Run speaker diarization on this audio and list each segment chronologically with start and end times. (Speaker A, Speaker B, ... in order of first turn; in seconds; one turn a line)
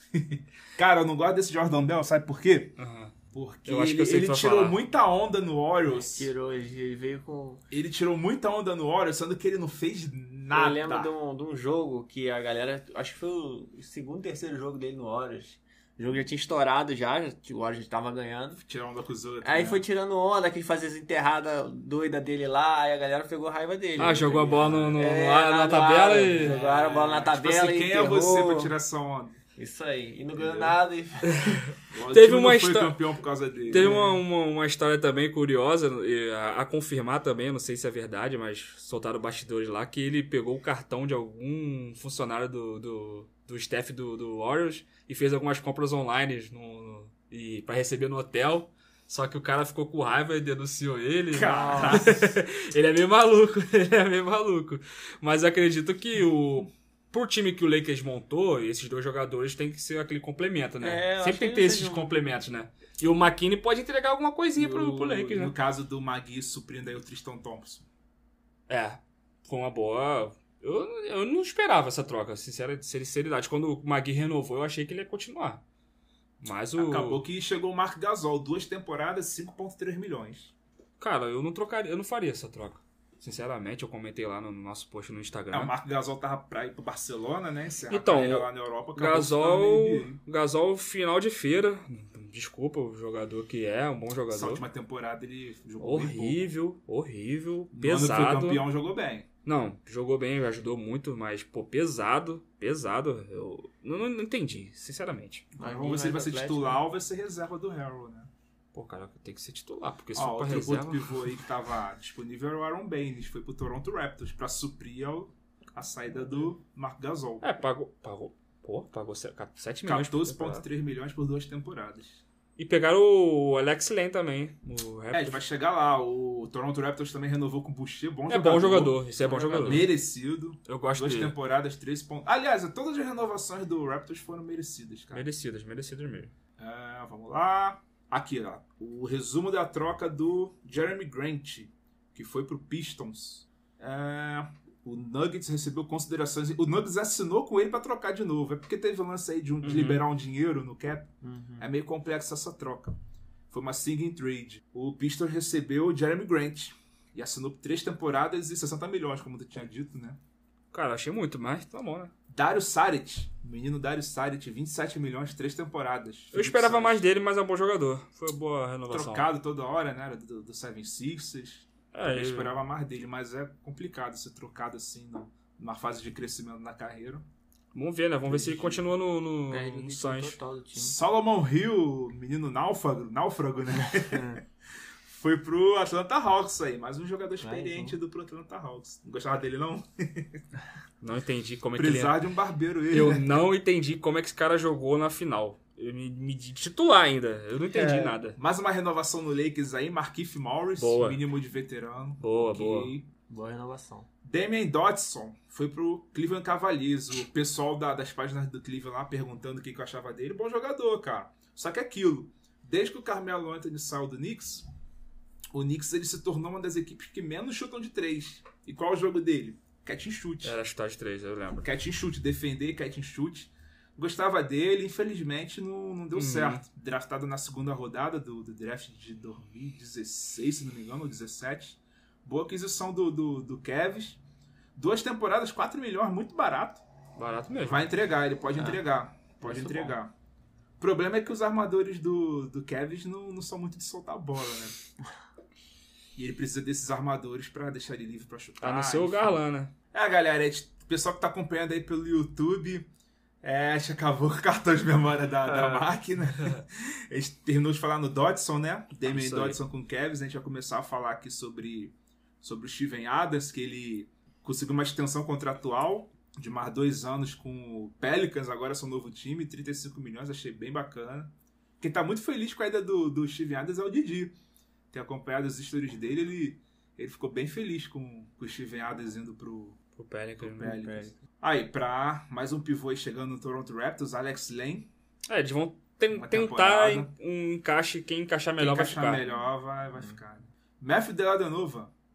Speaker A: 0.1-2.8
Speaker B: 2.8-3.1
Speaker A: 3.3-6.3
Speaker B: 3.6-4.8
Speaker C: 5.9-7.6
Speaker A: 7.7-11.1
Speaker C: 10.5-18.6
Speaker A: 18.6-19.8
Speaker C: 19.4-28.7
Speaker B: 24.0-27.3
Speaker A: 26.4-29.4
Speaker C: 29.6-31.7
Speaker A: 30.3-30.8
Speaker B: 31.3-33.0
Speaker A: 31.9-34.0
Speaker C: 33.7-34.2
Speaker B: 33.7-65.5
Speaker A: 51.3-52.3
Speaker C: 51.4-52.2
Speaker C: 60.8-62.1
Speaker A: 64.5-67.9
Speaker B: 68.7-75.6
Speaker B: 76.4-77.2
Speaker A: 76.7-80.5
Speaker B: 81.0-85.7
Speaker A: 85.5-90.2
Speaker B: 87.9-94.6
Speaker A: 94.3-96.4
Speaker B: 95.8-98.7
Speaker A: 97.7-99.3
Speaker B: 99.4-105.5
Speaker A: 105.5-108.3
Speaker C: 105.6-106.8
Speaker B: 108.7-111.3
Speaker A: 110.1-117.5
Speaker B: 117.4-120.6
Speaker A: 119.8-122.2
Speaker B: 122.6-125.4
Speaker A: 125.1-135.3
Speaker B: 128.3-129.9
Speaker B: 130.7-131.3
Speaker B: 135.1-136.3
Speaker A: 136.6-152.9
Speaker B: 149.6-150.0
Speaker C: 151.2-151.7
Speaker A: 153.5-160.2
Speaker B: 160.7-162.1
Speaker A: 162.3-167.0
Speaker B: 166.3-169.3
Speaker A: 168.9-177.2
Speaker B: 171.9-172.5
Speaker B: 177.7-180.4
Speaker A: 178.2-178.8
Speaker C: 179.5-180.9
Speaker A: 180.7-184.4
Speaker A: 185.0-190.4
Speaker C: 187.4-188.0
Speaker B: 191.0-192.2
Speaker A: 191.7-193.4
Speaker B: 192.9-198.4
Speaker C: 197.7-198.2
Speaker A: 198.3-203.1
Speaker B: 200.8-201.2
Speaker B: 202.2-202.9
Speaker C: 203.3-204.1
Speaker A: 204.2-214.6
Speaker A: 215.5-220.6
Speaker B: 220.4-221.7
Speaker A: 221.6-234.2
Speaker B: 226.1-226.6
Speaker A: 234.8-236.8
Speaker B: 237.2-237.8
Speaker A: 237.6-240.1
Speaker C: 239.4-239.9
Speaker A: 240.8-244.7
Speaker A: 246.2-252.9
Speaker B: 248.6-249.7
Speaker A: 253.4-274.3
Speaker C: 255.5-255.8
Speaker B: 259.1-259.6
Speaker A: 274.9-279.8
Speaker B: 279.9-280.8
Speaker A: 280.4-284.9
Speaker C: 280.7-281.1
Speaker B: 285.3-289.2
Speaker A: 286.1-287.1
Speaker A: 288.6-291.9